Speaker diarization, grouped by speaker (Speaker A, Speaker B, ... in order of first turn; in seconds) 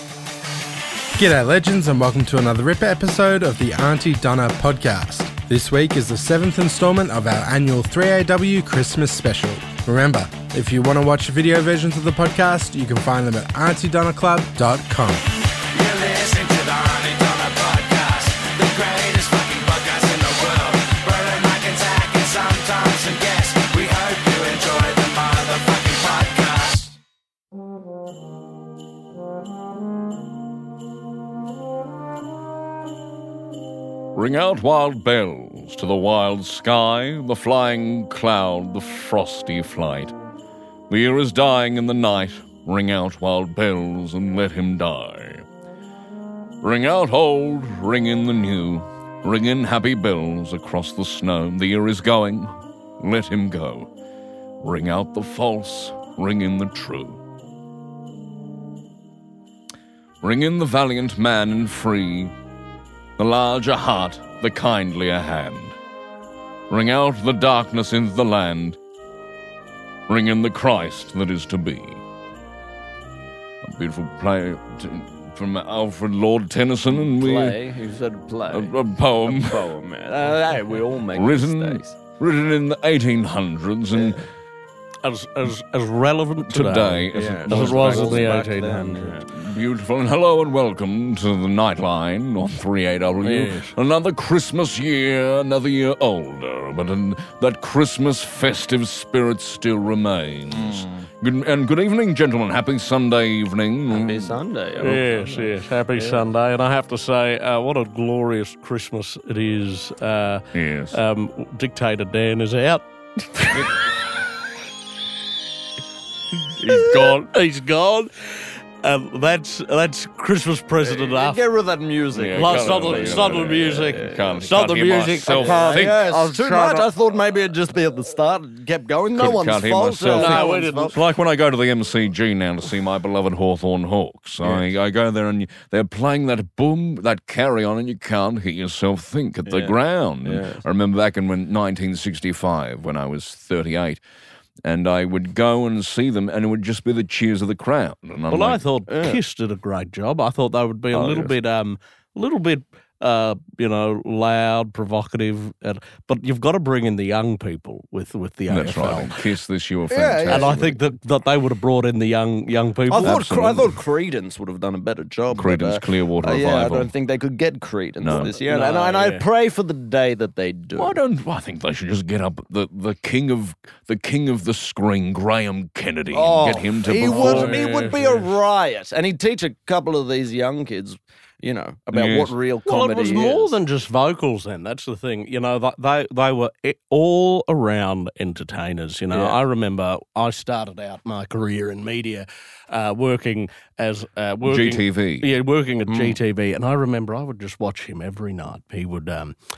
Speaker A: 1.2-15.2, 15.8-17.7, 23.0-23.8, 25.3-26.9
Speaker B: 15.8-26.8
Speaker C: 34.1-40.1, 40.9-45.5, 46.6-53.9, 54.6-57.2, 60.2-62.3, 63.2-65.8, 66.7-68.8, 70.1-72.0, 73.6-77.6, 78.5-79.7, 81.1-84.2, 86.5-88.3, 89.3-104.4, 110.5-111.0, 116.6-117.2, 122.1-126.2, 129.2-144.0, 144.6-148.6, 150.9-151.3, 158.5-160.6, 163.0-163.6, 165.3-166.9, 168.0-168.3, 170.8-177.6, 181.9-182.3, 194.4-195.3
Speaker D: 76.9-82.0, 83.9-84.2, 87.1-89.3, 100.5-101.1, 103.9-106.2, 120.8-124.5, 125.3-131.0, 139.5-140.6, 148.9-149.2, 159.9-160.7, 162.9-171.0, 176.1-183.5, 189.1-189.4, 195.9-196.2
Speaker E: 85.0-89.2, 93.2-93.8, 104.8-113.7, 116.7-121.4, 122.3-126.9, 130.2-131.0, 148.3-159.2, 160.3-163.6, 168.3-169.2, 176.9-178.3, 182.7-199.4